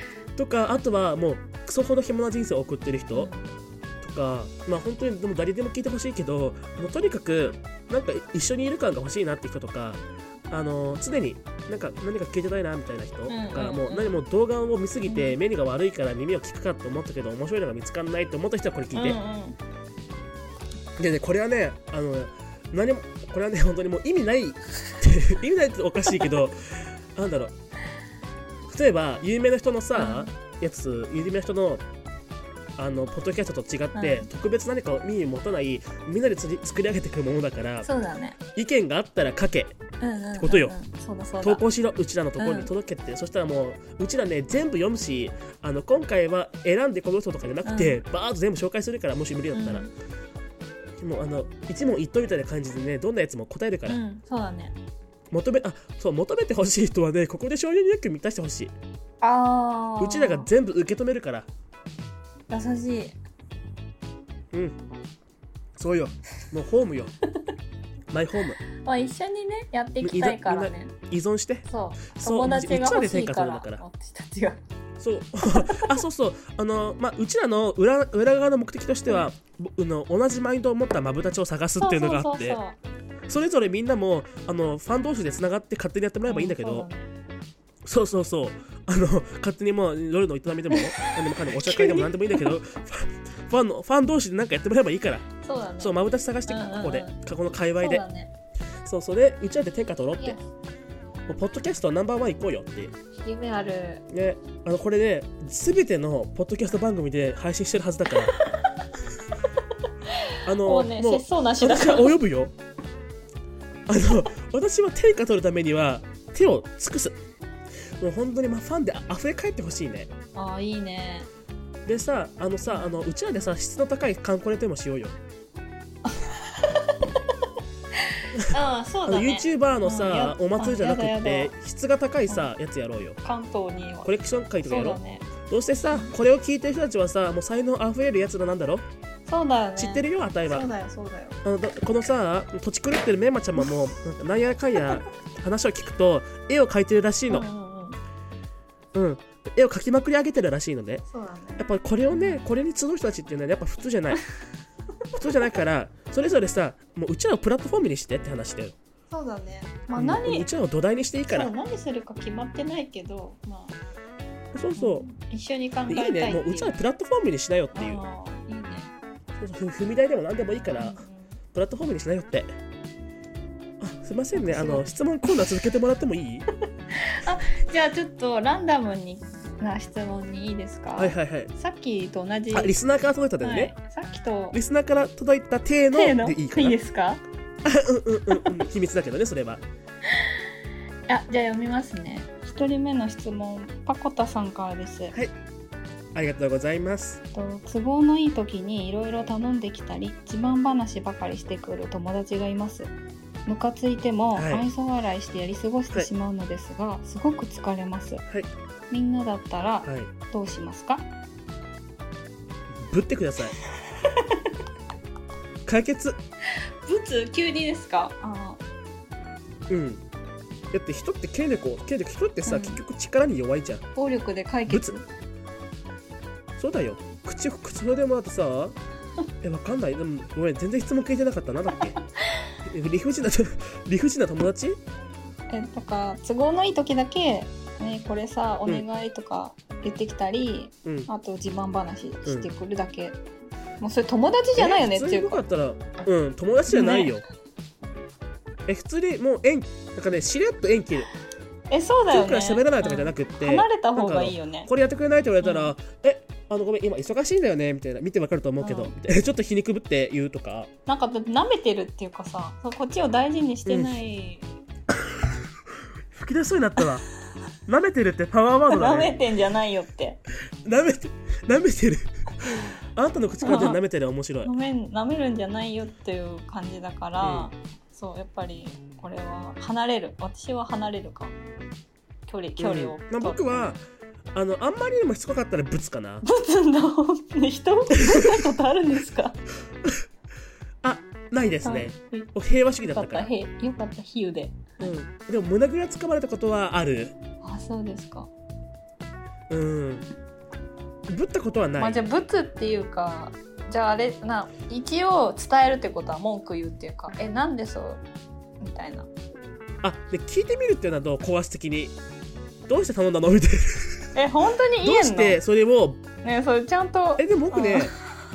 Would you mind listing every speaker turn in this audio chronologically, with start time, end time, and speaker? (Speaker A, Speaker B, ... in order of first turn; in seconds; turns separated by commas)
Speaker A: 0.3-3.3, Speaker B: 3.1-3.5, Speaker A: 4.0-19.2, Speaker B: 13.3-14.2, Speaker B: 15.1-15.4, Speaker B: 18.9-19.6, Speaker A: 21.0-27.5, Speaker A: 28.6-31.8, Speaker B: 29.9-30.3, Speaker A: 32.8-37.9, Speaker B: 33.9-34.3, Speaker B: 37.8-38.4, Speaker A: 38.5-39.8, Speaker B: 40.0-41.6, Speaker A: 40.4-40.8, Speaker A: 41.4-49.9, Speaker B: 42.4-42.7, Speaker B: 47.6-48.0, Speaker B: 49.5-49.9, Speaker A: 51.0-54.0, Speaker B: 53.9-54.7, Speaker A: 55.3-58.7, Speaker B: 59.2-60.5, Speaker A: 60.0-61.5, Speaker B: 62.5-63.2, Speaker A: 65.8-67.1, Speaker A: 68.1-68.6, Speaker B: 68.7-70.9, Speaker A: 70.0-73.8, Speaker B: 71.7-74.6, Speaker A: 75.0-82.6, Speaker B: 75.5-76.0, Speaker B: 81.8-82.8, Speaker A: 83.3-86.9, Speaker B: 86.2-87.1, Speaker A: 87.8-95.2, Speaker B: 90.7-92.5, Speaker B: 95.4-97.2, Speaker A: 95.8-98.0, Speaker B: 97.8-98.3, Speaker A: 98.8-100.4, Speaker B: 100.2-100.4, Speaker A: 101.3-102.9, Speaker B: 103.2-104.0, Speaker A: 104.1-108.3, Speaker B: 108.4-108.8, Speaker B: 110.0-112.2, Speaker A: 110.4-112.5, Speaker A: 113.9-117.2, Speaker A: 117.8-120.1, Speaker B: 120.3-121.3, Speaker A: 121.8-125.1, Speaker B: 122.7-123.0, Speaker B: 126.0-127.2, Speaker B: 127.9-131.5, Speaker A: 129.1-133.2, Speaker B: 133.2-135.3, Speaker A: 134.0-138.8, Speaker B: 139.3-141.4, Speaker A: 139.8-140.7, Speaker A: 141.4-147.5, Speaker B: 147.3-148.0, Speaker A: 148.9-151.0, Speaker B: 151.1-152.4, Speaker A: 151.6-154.2, Speaker A: 155.2-158.8, Speaker B: 159.1-160.5, Speaker A: 159.9-161.5, Speaker B: 161.3-163.8, Speaker A: 164.5-165.1, Speaker B: 164.8-166.8, Speaker A: 165.9-168.0, Speaker B: 167.7-168.9, Speaker A: 169.4-171.0, Speaker B: 170.8-171.4, Speaker A: 171.5-172.5, Speaker A: 173.8-176.5, Speaker B: 174.3-175.4, Speaker B: 176.9-182.8, Speaker A: 181.0-181.5, Speaker A: 182.5-183.7, Speaker B: 183.4-184.6, Speaker A: 184.5-186.8, Speaker B: 185.9-187.2, Speaker A: 187.6-189.6, Speaker B: 190.1-190.4, Speaker B: 191.1-195.1, Speaker A: 196.1-197.2, Speaker B: 197.3-202.9, Speaker B: 203.4-208.2, Speaker A: 204.3-204.7, Speaker B: 208.9-211.0, Speaker A: 209.8-210.1, Speaker A: 212.7-213.6, Speaker B: 213.9-214.5, Speaker A: 215.7-216.2, Speaker B: 216.8-218.6, Speaker A: 219.7-220.0, Speaker A: 220.7-223.8, Speaker B: 222.4-222.8, Speaker B: 223.9-225.1, Speaker A: 224.7-224.9, Speaker A: 226.6-228.8, Speaker A: 229.4-231.9, Speaker B: 232.0-232.6, Speaker A: 232.6-234.8, Speaker B: 235.5-243.2, Speaker A: 240.8-241.1, Speaker B: 243.8-245.4, Speaker A: 244.6-247.2, Speaker B: 246.7-247.1, Speaker A: 248.7-251.1, Speaker B: 251.7-254.7, Speaker A: 252.1-260.7, Speaker B: 255.4-255.7, Speaker B: 258.6-258.9, Speaker B: 260.9-264.5, Speaker A: 263.6-263.9, Speaker A: 265.0-265.3, Speaker A: 266.1-267.0, Speaker A: 267.7-269.2, Speaker B: 268.7-270.2, Speaker A: 270.6-274.5, Speaker B: 273.4-273.8, Speaker B: 274.4-281.3, Speaker A: 277.2-277.5, Speaker B: 282.3-283.7, Speaker A: 282.6-283.8, Speaker A: 284.3-286.2, Speaker B: 286.2-289.4, Speaker A: 288.0-288.5, Speaker A: 290.8-293.3, Speaker B: 291.6-294.9, Speaker A: 294.8-297.1, Speaker B: 297.4-298.3, Speaker A: 299.5-300.1, Speaker A: 301.1-302.0, Speaker B: 301.8-308.0, Speaker B: 308.6-309.1, Speaker A: 309.8-311.9, Speaker A: 312.7-314.1, Speaker B: 314.1-315.4, Speaker A: 314.8-316.0, Speaker B: 316.2-318.0, Speaker A: 317.2-317.9